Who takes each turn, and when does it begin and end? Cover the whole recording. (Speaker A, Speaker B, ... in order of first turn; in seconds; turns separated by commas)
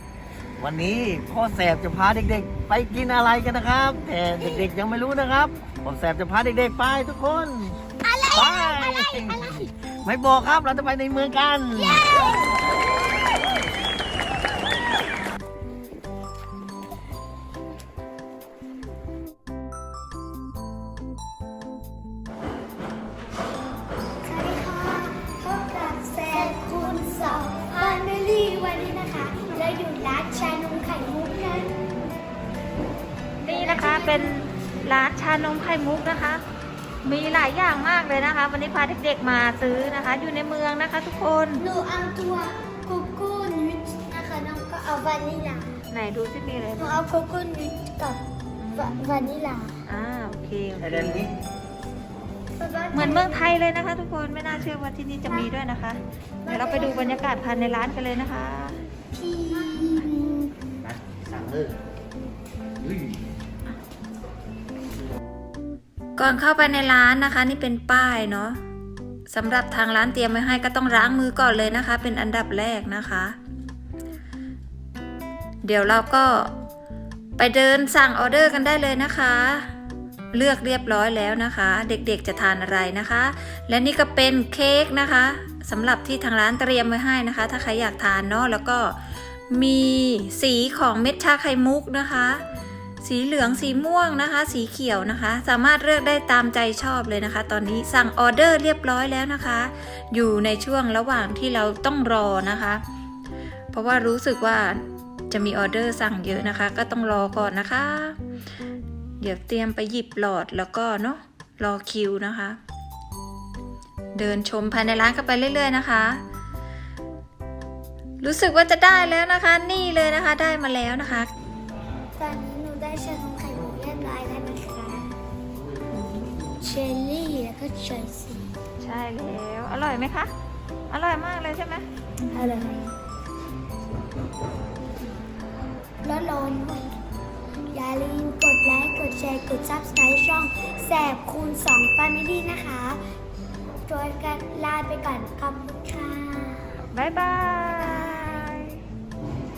Speaker A: 0.6-12.2, Speaker B: 8.1-9.3, Speaker B: 24.2-31.8, Speaker C: 33.4-36.4, Speaker B: 33.4-34.4, Speaker C: 37.0-41.6, Speaker B: 41.6-45.8, Speaker C: 45.9-47.0, Speaker B: 46.8-48.2, Speaker C: 48.6-49.0, Speaker B: 48.7-49.8, Speaker C: 49.9-51.2, Speaker A: 50.9-51.3, Speaker B: 52.5-53.5, Speaker C: 52.9-58.8, Speaker B: 56.4-57.5, Speaker B: 59.1-60.5, Speaker A: 61.3-61.7, Speaker C: 66.2-68.6, Speaker C: 69.3-73.3, Speaker C: 75.6-76.5, Speaker C: 77.4-79.7, Speaker C: 80.3-89.0, Speaker C: 89.5-92.4, Speaker C: 93.0-102.8, Speaker C: 103.7-108.2, Speaker C: 109.2-112.6, Speaker C: 114.1-116.2, Speaker C: 118.2-121.3, Speaker B: 122.2-125.1, Speaker B: 126.6-128.4, Speaker C: 128.8-130.3, Speaker C: 130.9-132.8, Speaker B: 132.3-132.8, Speaker B: 136.0-136.9, Speaker B: 137.7-143.0, Speaker B: 143.8-146.7, Speaker C: 146.9-148.8